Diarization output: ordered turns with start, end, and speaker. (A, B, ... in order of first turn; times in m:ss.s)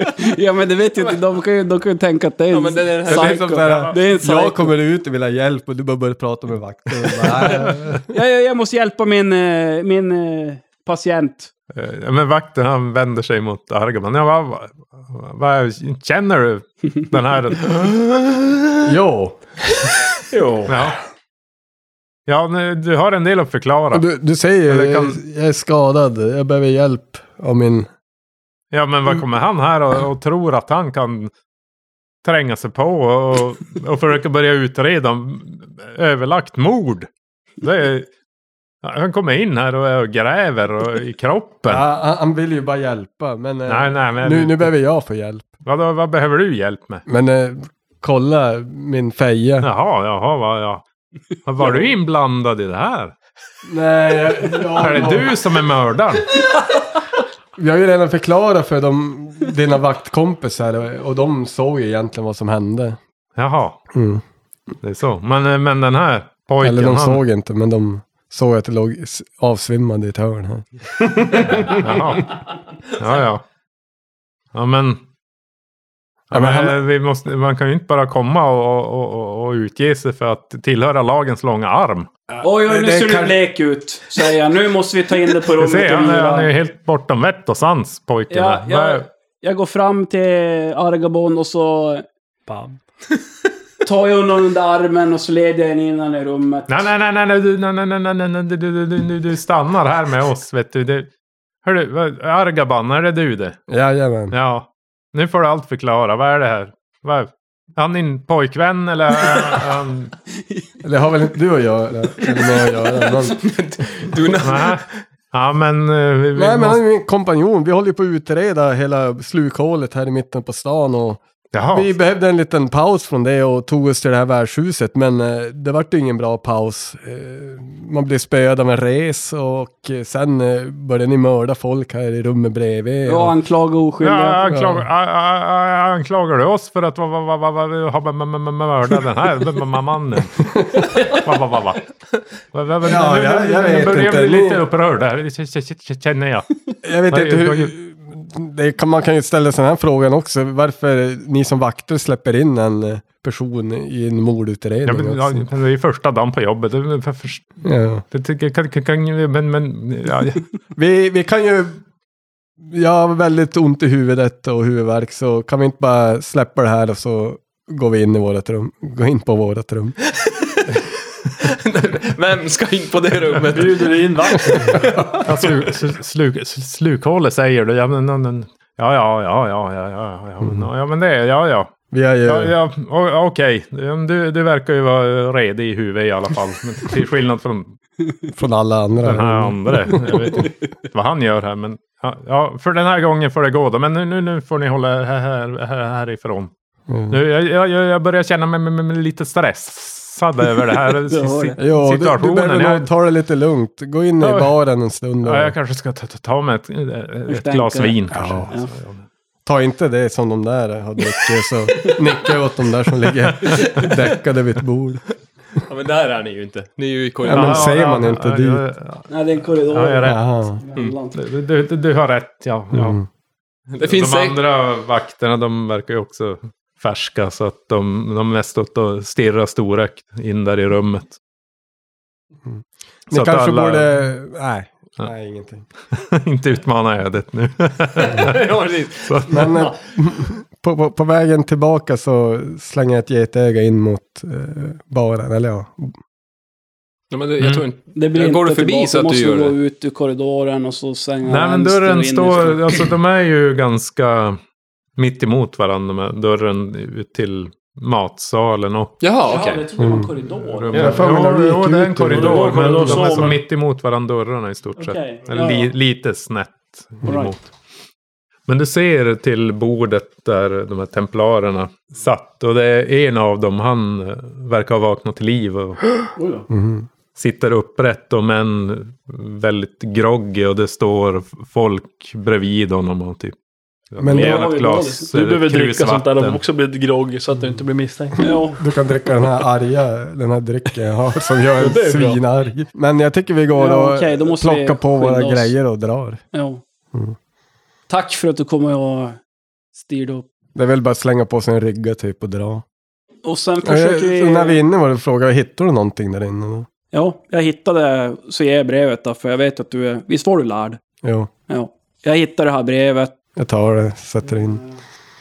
0:00.1-0:04.7 A
0:02.5-0:03.5 B
0:03.0-0:08.0 C
0:03.6-0:03.9 D
0:08.1-0:11.5 A
0:11.7-0:17.9 D
0:18.8-0:19.4 C
0:20.4-0:20.7 B
0:20.7-0:21.0 D
0:22.3-0:24.0 D
0:23.9-0:27.9 C
0:24.7-0:25.2 D
0:28.7-0:31.3 D
0:32.2-0:37.1 D
0:37.6-0:38.1 D
0:38.8-0:41.8 D
0:41.7-0:45.5 C
0:43.7-0:44.7 D
0:45.6-0:47.0 D
0:47.0-0:49.7 C
0:49.6-0:50.8 D
0:51.4-0:53.1 D
0:51.6-0:51.9 C
0:53.6-0:55.4 C
0:54.8-0:56.4 D
0:57.6-1:03.0 C
1:03.4-1:03.8 D
1:03.9-1:04.2 C
1:04.8-1:07.2 D
1:06.6-1:11.9 C
1:11.8-1:12.4 D
1:12.9-1:13.4 D
1:14.5-1:15.0 D
1:16.3-1:22.1 D
1:16.3-1:16.8 C
1:22.4-1:26.5 A
1:22.7-1:23.3 C
1:25.6-1:29.0 D
1:28.3-1:32.0 A
1:32.5-1:32.8 E
1:33.8-1:36.8 A
1:36.7-1:41.1 D
1:41.6-1:43.6 D
1:43.7-1:44.3 C
1:44.3-1:50.1 D
1:50.8-1:53.5 C
1:53.4-1:55.0 B
1:54.4-1:56.8 D
1:56.4-2:01.2 C
2:01.5-2:01.9 D
2:01.7-2:13.3 C
2:13.0-2:14.4 A
2:14.0-2:20.4 D
2:14.4-2:14.8 C
2:20.4-2:21.0 C
2:21.0-2:21.9 D
2:22.5-2:27.7 D
2:22.8-2:24.6 C
2:26.8-2:35.4 C
2:34.8-2:37.5 D
2:37.6-2:38.0 C
2:38.1-2:40.5 D
2:40.7-2:41.8 C
2:42.6-2:50.0 C
2:50.2-2:50.7 B
2:51.4-2:54.9 B
2:53.5-2:55.1 E
2:54.7-2:55.0 C
2:55.2-3:01.7 D
3:00.4-3:00.7 C
3:01.9-3:02.5 C
3:02.2-3:07.8 D
3:08.3-3:10.5 C
3:09.0-3:16.5 D
3:16.9-3:17.2 C
3:17.1-3:22.9 D
3:21.1-3:21.6 A
3:21.6-3:25.5 C
3:24.2-3:24.5 D
3:25.2-3:29.0 D
3:27.3-3:28.0 A
3:28.1-3:28.5 C
3:29.4-3:35.0 C
3:33.5-3:33.9 B
3:35.6-3:37.8 B
3:37.2-3:38.6 C
3:37.3-3:39.1 D
3:39.1-3:41.2 A
3:39.7-3:40.2 D
3:40.0-3:40.6 C
3:41.1-3:43.0 D
3:42.7-3:43.0 C
3:43.7-3:44.4 B
3:43.8-3:51.2 D
3:52.4-3:55.6 C
3:53.1-3:53.9 D
3:55.9-3:58.4 D
3:58.0-3:59.8 B
3:59.0-3:59.5 D
3:59.3-4:05.9 C
4:07.1-4:09.6 B
4:07.4-4:07.6 D
4:07.9-4:12.6 A
4:11.2-4:14.4 D
4:15.0-4:19.0 D
4:19.0-4:19.6 B
4:19.2-4:21.1 A
4:19.8-4:20.1 C
4:20.5-4:27.5 D
4:20.7-4:23.3 C
4:22.1-4:23.4 E
4:24.8-4:25.7 A
4:27.0-4:27.3 A
4:28.5-4:36.0 D
4:36.2-4:36.4 A
4:36.5-4:36.9 C
4:37.1-4:43.4 D
4:43.9-4:46.4 D
4:44.0-4:44.5 C
4:44.1-4:45.0 A
4:44.1-4:48.4 E
4:48.2-4:56.2 C
4:48.2-4:48.6 A
4:51.6-4:52.2 E
4:53.6-4:55.5 A
4:56.3-4:56.6 A
4:57.9-4:59.2 A
4:59.7-5:00.2 A
5:00.5-5:02.6 C
5:03.2-5:04.6 A
5:03.6-5:06.7 C
5:06.9-5:10.8 A
5:11.0-5:11.3 C
5:11.5-5:13.1 A
5:13.4-5:14.6 C